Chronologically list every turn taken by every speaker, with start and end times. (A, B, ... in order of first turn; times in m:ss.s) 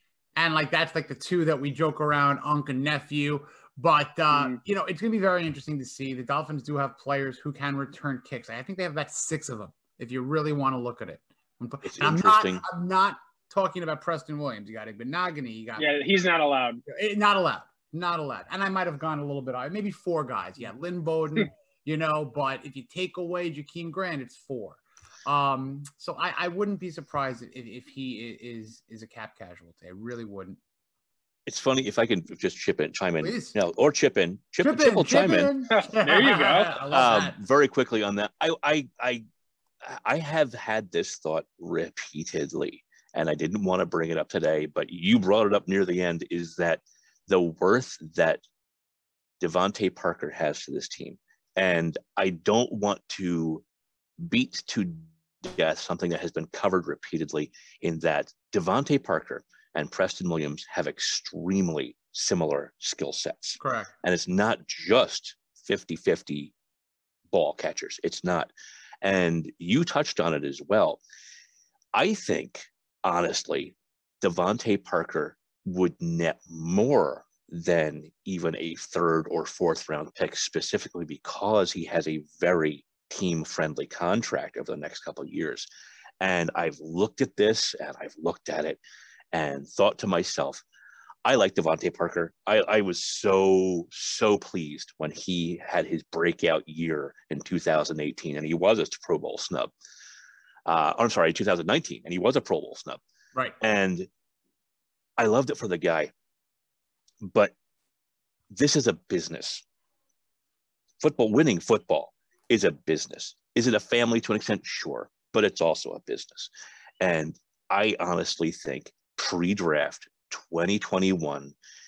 0:00.4-0:15.9 A
0:04.3-0:04.6 B
0:11.8-0:12.6 C
0:15.8-0:16.8 B
0:16.9-0:30.6 A
0:31.5-0:35.5 C
0:33.2-0:33.6 A
0:34.6-0:37.4 A
0:35.7-0:36.8 B
0:36.9-0:39.2 C
0:39.8-0:48.4 C
0:49.4-0:53.6 C
0:54.2-1:06.5 C
1:03.6-1:03.9 A
1:07.3-1:08.5 C
1:09.0-1:11.0 C
1:11.9-1:25.7 C
1:26.2-1:28.8 C
1:29.3-1:30.6 C
1:31.2-1:39.7 C
1:40.7-1:43.0 C
1:43.6-1:44.1 C
1:45.2-1:46.1 C
1:47.2-1:47.5 C
1:48.5-1:49.6 C
1:51.0-2:01.6 C